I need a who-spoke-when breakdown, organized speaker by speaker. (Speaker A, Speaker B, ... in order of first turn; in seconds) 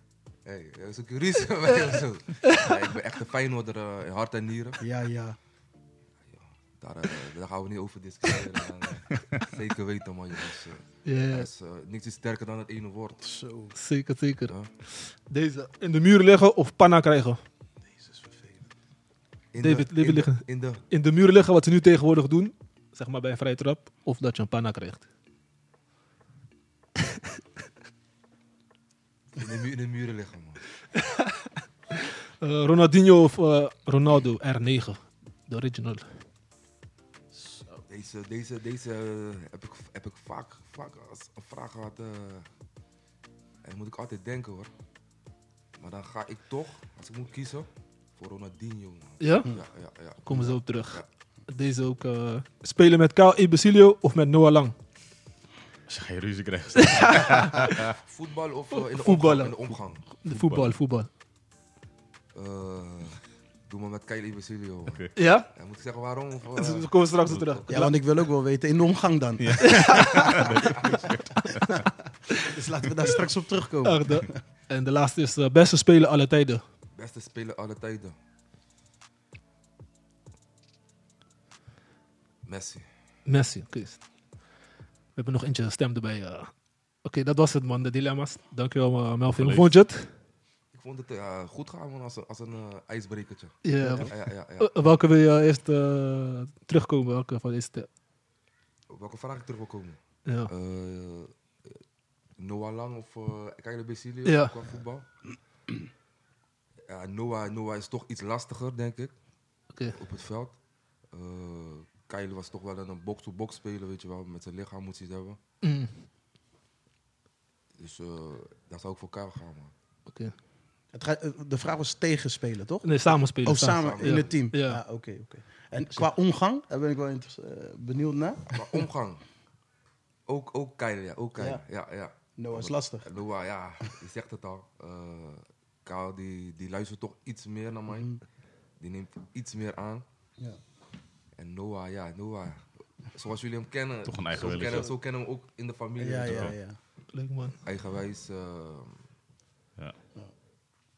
Speaker A: 0.4-4.8, 6.3-13.2, 19.5-20.8, 29.4-30.6, 37.9-42.5, 43.6-44.7, 45.8-51.1, 57.8-60.0, 62.3-67.8, 70.5-71.0, 76.9-78.1, 82.4-82.9, 90.7-94.7, 98.9-101.8, 102.4-105.0, 106.9-109.1, 109.8-110.6, 111.1-115.4, 117.8-119.7, 123.6-124.3, 128.5-129.2, 130.3-138.1, 138.8-140.0, 141.3-146.5, 147.6-149.0
Speaker B: 4.8-5.4, 13.2-13.7, 17.9-18.6, 37.4-37.8, 67.7-70.5, 72.4-74.4, 93.8-94.1, 120.9-128.8, 131.4-131.6, 132.4-133.1, 137.9-138.2, 146.0-146.8
Speaker C: 11.0-11.5, 13.7-17.4, 19.6-25.1, 32.4-36.1, 49.2-49.5, 50.2-54.7, 56.8-57.7, 58.7-61.1, 65.2-65.5, 66.5-68.0, 69.6-70.4, 73.8-76.6, 83.2-84.0, 85.2-86.5, 87.0-90.1, 93.6-97.9, 100.2-100.5, 104.2-104.5, 109.7-110.0, 115.6-116.0, 120.1-120.3, 122.8-124.8, 147.1-147.5
Speaker D: 55.9-57.9, 60.3-60.7, 64.9-65.1, 69.4-71.8, 89.3-89.7, 144.1-144.9, 146.3-146.6